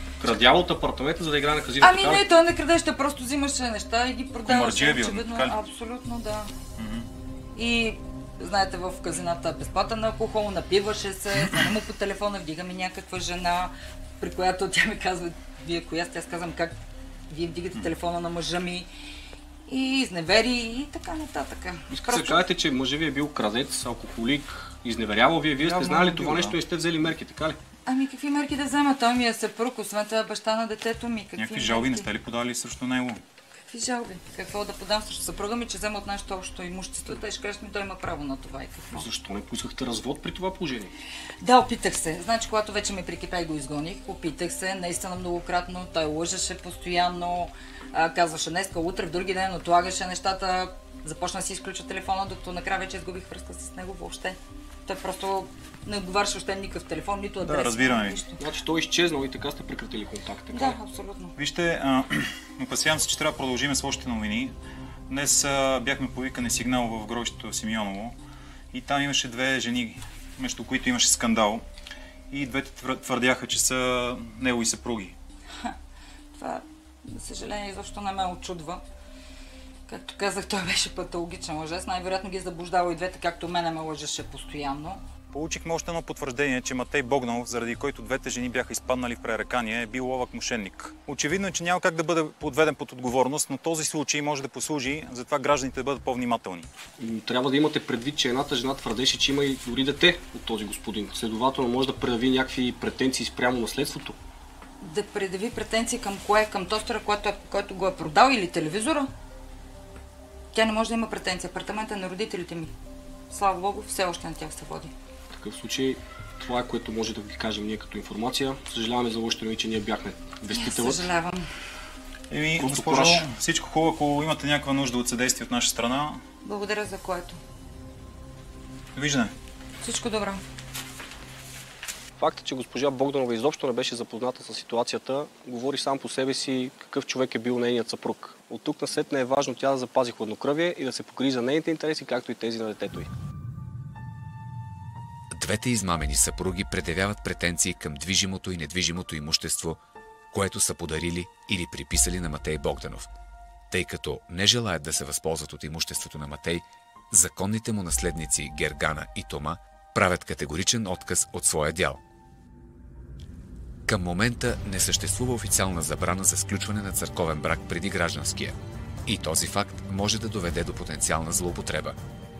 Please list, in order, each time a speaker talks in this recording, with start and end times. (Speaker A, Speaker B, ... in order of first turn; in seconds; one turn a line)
Speaker A: 0.2-2.2
Speaker B: 1.8-6.5
Speaker C: 4.4-5.5
Speaker C: 6.8-7.1
Speaker B: 7.5-16.8
Speaker B: 17.3-18.9
Speaker B: 19.7-22.4
Speaker A: 21.9-27.6
Speaker B: 25.6-26.3
Speaker B: 27.9-32.1
Speaker C: 31.4-33.2
Speaker B: 33.7-39.1
Speaker A: 38.9-40.9
Speaker B: 41.4-58.4
Speaker A: 57.4-57.7
Speaker C: 57.6-58.2
Speaker A: 58.4-60.8
Speaker B: 60.5-61.4
Speaker C: 61.4-64.6
Speaker C: 65.1-68.2
Speaker C: 68.7-71.7
Speaker C: 72.3-75.2
Speaker B: 76.3-78.8
Speaker B: 79.9-85.0
Speaker C: 85.3-96.7
Speaker A: 97.0-104.2
Speaker B: 104.8-109.1
Speaker B: 110.5-112.7
Speaker B: 113.3-114.9
Speaker A: 115.3-121.1
Speaker B: 120.5-121.5
Speaker C: 122.3-126.2
Speaker A: 122.6-123.3
Speaker B: 126.4-127.4
Speaker C: 128.9-129.3
Speaker B: 129.8-130.4
Speaker A: 132.2-143.1
Speaker D: 145.3-149.8
Speaker D: 150.3-153.1
Speaker D: 153.7-162.0
Speaker D: 163.9-172.0